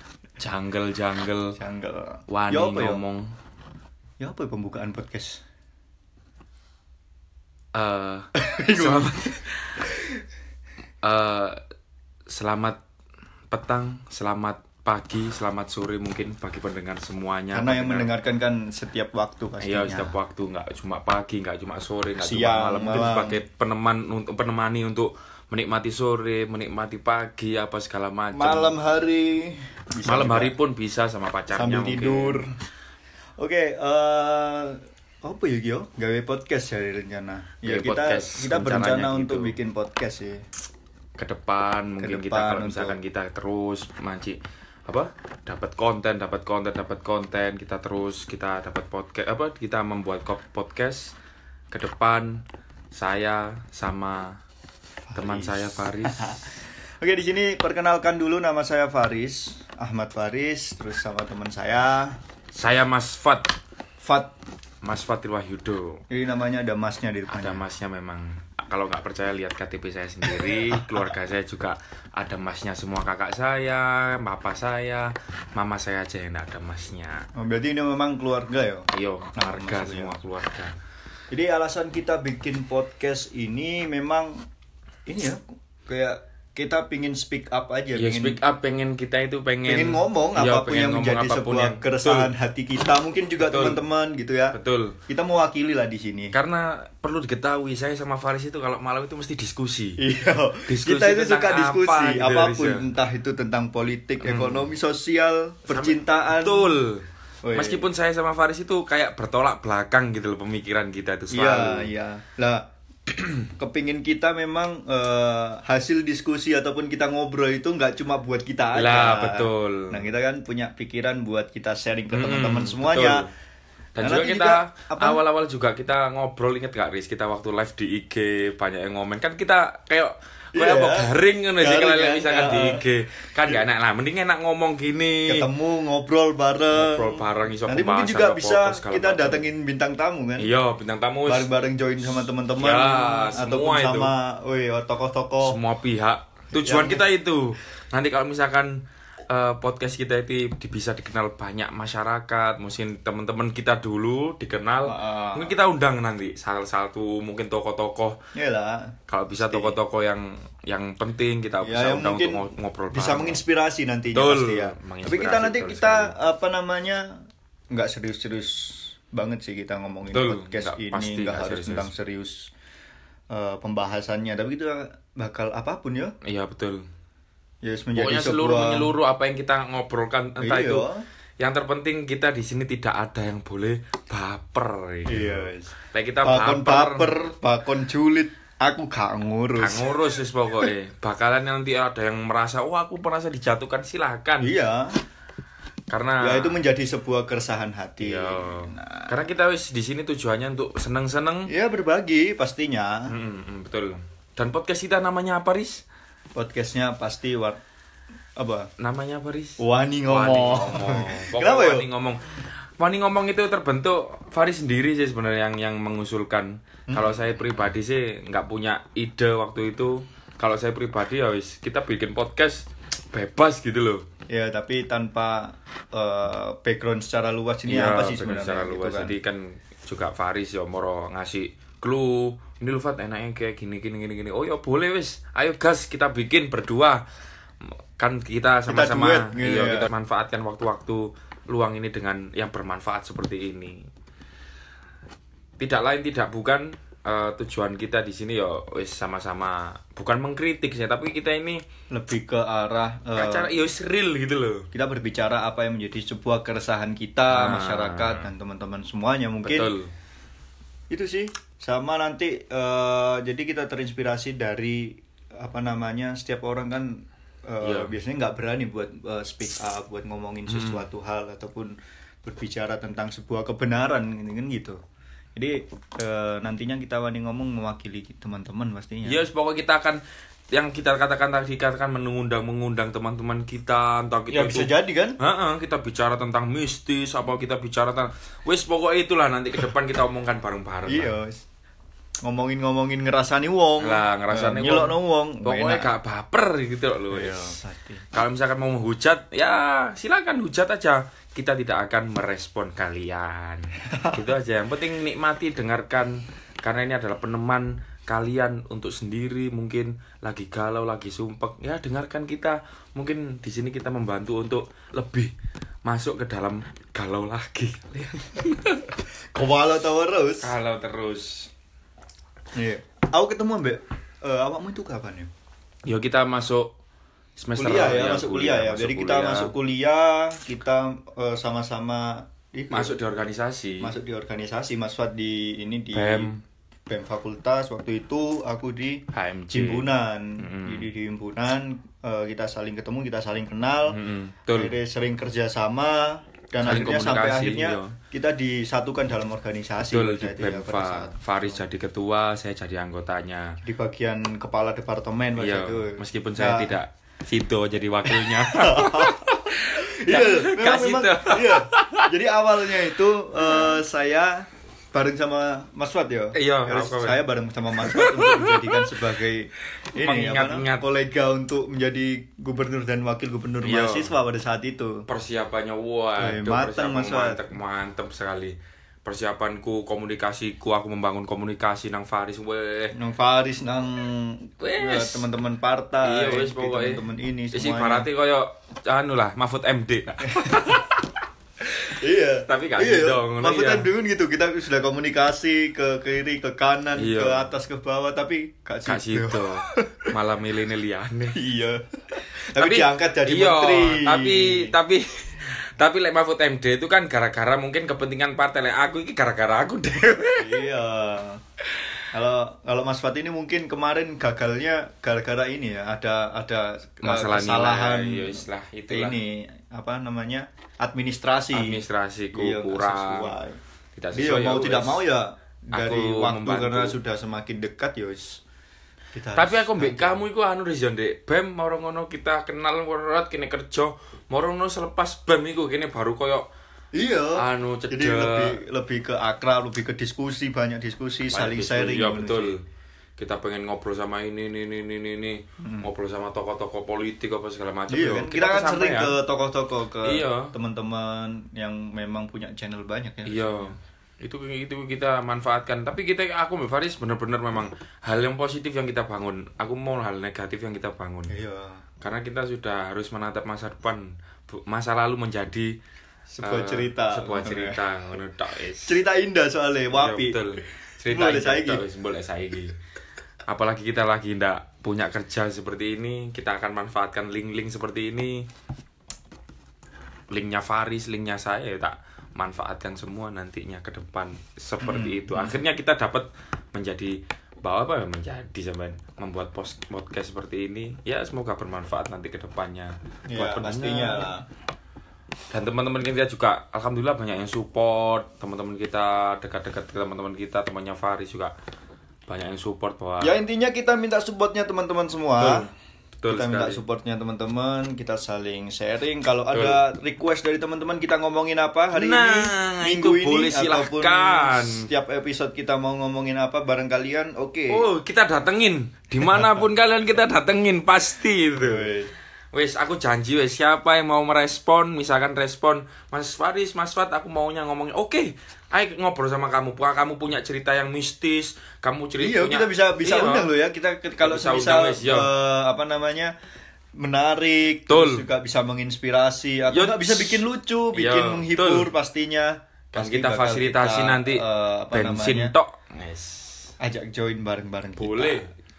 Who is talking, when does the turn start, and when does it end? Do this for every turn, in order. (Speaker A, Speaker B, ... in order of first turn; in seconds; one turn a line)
Speaker A: 0.4-1.6
Speaker B: 1.6-3.0
Speaker A: 2.3-3.3
Speaker B: 4.2-5.4
Speaker A: 7.7-9.8
Speaker B: 8.3-9.3
Speaker A: 11.0-11.6
Speaker A: 12.3-12.8
Speaker A: 13.5-18.1
Speaker B: 17.5-20.1
Speaker A: 19.6-28.7
Speaker B: 22.2-23.4
Speaker B: 28.3-30.5
Speaker A: 30.1-32.4
Speaker B: 31.5-32.5
Speaker B: 33.4-40.4
Speaker A: 37.6-39.5
Speaker A: 41.2-51.1
Speaker B: 42.0-43.0
Speaker A: 51.7-54.4
Speaker B: 55.0-62.2
Speaker A: 55.1-56.4
Speaker A: 62.5-63.5
Speaker B: 64.0-64.3
Speaker A: 64.8-66.0
Speaker B: 66.1-67.6
Speaker A: 67.3-77.2
Speaker B: 70.5-70.8
Speaker B: 77.3-80.2
Speaker A: 78.9-80.8
Speaker B: 81.3-84.4
Speaker B: 85.1-88.4
Speaker A: 87.9-92.3
Speaker B: 89.7-94.6
Speaker A: 93.4-93.8
Speaker A: 94.5-95.0
Speaker B: 95.1-96.3
Speaker A: 96.3-100.0
Speaker B: 100.0-106.8
Speaker A: 100.7-102.8
Speaker A: 104.2-104.7
Speaker A: 105.7-111.9
Speaker B: 107.4-107.8
Speaker B: 111.3-112.7
Speaker A: 113.1-113.4
Speaker B: 113.5-123.3
Speaker A: 118.7-120.1
Speaker A: 122.1-123.3
Speaker A: 124.0-135.5
Speaker B: 124.0-125.2
Speaker B: 130.5-132.8
Speaker B: 135.3-140.5
Speaker A: 136.7-139.4
Speaker A: 140.4-141.5
Speaker B: 141.2-145.6
Speaker A: 142.1-144.1
Speaker A: 145.4-158.2
Speaker B: 146.6-147.0
Speaker B: 154.8-155.5
Speaker B: 158.3-159.7
Speaker A: 159.1-163.4
Speaker B: 161.6-167.2
Speaker A: 164.1-166.1
Speaker B: 167.7-172.5
Speaker A: 170.1-171.9
Speaker B: 173.3-176.1
Speaker A: 176.2-176.8
Speaker B: 177.6-178.9
Speaker A: 177.9-180.9
Speaker B: 180.4-181.0
Speaker A: 181.4-187.2
Speaker B: 185.1-189.9
Speaker A: 189.6-194.5
Speaker B: 194.4-194.9
Speaker A: 195.9-196.6
Speaker B: 196.2-199.1
Speaker A: 198.0-201.5
Speaker B: 201.5-203.1
Speaker A: 203.1-205.8
Speaker B: 206.3-207.6
Speaker B: 208.4-208.7
Speaker A: 208.8-224.1
Speaker B: 209.6-211.8
Speaker B: 216.9-217.2
Speaker B: 224.3-229.2
Speaker A: 227.7-237.0
Speaker A: 238.0-243.8
Speaker B: 238.7-239.9
Speaker A: 245.6-251.6
Speaker B: 251.9-253.5
Speaker A: 253.1-254.7
Speaker B: 254.7-259.7
Speaker A: 257.3-258.3
Speaker A: 259.4-259.9
Speaker B: 260.9-274.8
Speaker A: 267.6-267.9
Speaker A: 270.5-270.8
Speaker B: 275.3-279.2
Speaker A: 279.0-291.1
Speaker B: 284.3-285.2
Speaker B: 290.9-291.4
Speaker B: 292.2-295.9
Speaker A: 293.8-297.6
Speaker B: 297.1-298.0
Speaker A: 298.1-315.3
Speaker A: 315.9-318.9
Speaker B: 319.3-320.5
Speaker A: 320.4-321.5
Speaker B: 322.5-325.3
Speaker A: 325.9-326.7
Speaker A: 327.4-329.5
Speaker B: 327.6-333.0
Speaker A: 332.7-333.9
Speaker B: 333.8-336.3
Speaker A: 335.9-336.4
Speaker B: 336.9-344.0
Speaker A: 339.1-340.9
Speaker A: 343.9-344.8
Speaker B: 344.5-351.6
Speaker A: 346.6-347.9
Speaker A: 349.8-353.6
Speaker B: 353.6-356.7
Speaker A: 355.4-362.1
Speaker B: 358.0-375.0
Speaker A: 363.5-363.7
Speaker A: 366.3-368.9
Speaker A: 370.0-370.9
Speaker A: 373.6-374.1
Speaker A: 375.1-382.9
Speaker B: 376.2-377.4
Speaker B: 382.9-388.1
Speaker A: 384.6-385.3
Speaker A: 386.0-391.1
Speaker B: 390.3-390.7
Speaker B: 391.9-400.1
Speaker A: 392.4-393.9
Speaker A: 397.0-397.5
Speaker A: 398.9-401.4
Speaker B: 401.3-404.7
Speaker A: 402.5-410.7
Speaker B: 410.4-411.4
Speaker B: 412.1-423.6
Speaker A: 417.0-419.2
Speaker A: 421.5-423.4
Speaker A: 423.9-425.1
Speaker B: 424.1-428.4
Speaker A: 425.7-427.0
Speaker B: 429.1-430.2
Speaker A: 429.3-436.5
Speaker B: 436.9-442.5
Speaker A: 437.3-438.6
Speaker A: 441.3-442.6
Speaker A: 443.2-449.2
Speaker B: 445.6-445.9
Speaker B: 447.9-453.7
Speaker A: 450.0-450.5
Speaker A: 453.2-461.3
Speaker B: 461.3-461.8
Speaker A: 462.0-465.8
Speaker B: 466.3-467.8
Speaker A: 466.4-469.0
Speaker B: 468.8-471.8
Speaker A: 469.9-472.8
Speaker A: 473.5-478.5
Speaker A: 480.3-494.3
Speaker B: 484.8-485.6
Speaker B: 493.3-494.4
Speaker A: 495.5-501.5
Speaker A: 502.3-503.4
Speaker B: 503.2-505.7
Speaker A: 505.4-506.8
Speaker B: 506.3-517.8
Speaker A: 509.5-509.8
Speaker A: 511.9-514.9
Speaker A: 517.7-521.9
Speaker B: 521.5-522.1
Speaker A: 522.5-533.5
Speaker B: 532.2-536.3
Speaker A: 534.2-535.3
Speaker B: 537.0-545.5
Speaker A: 537.9-538.2
Speaker A: 539.7-541.9
Speaker A: 542.9-546.7
Speaker B: 546.8-548.5
Speaker A: 548.0-548.5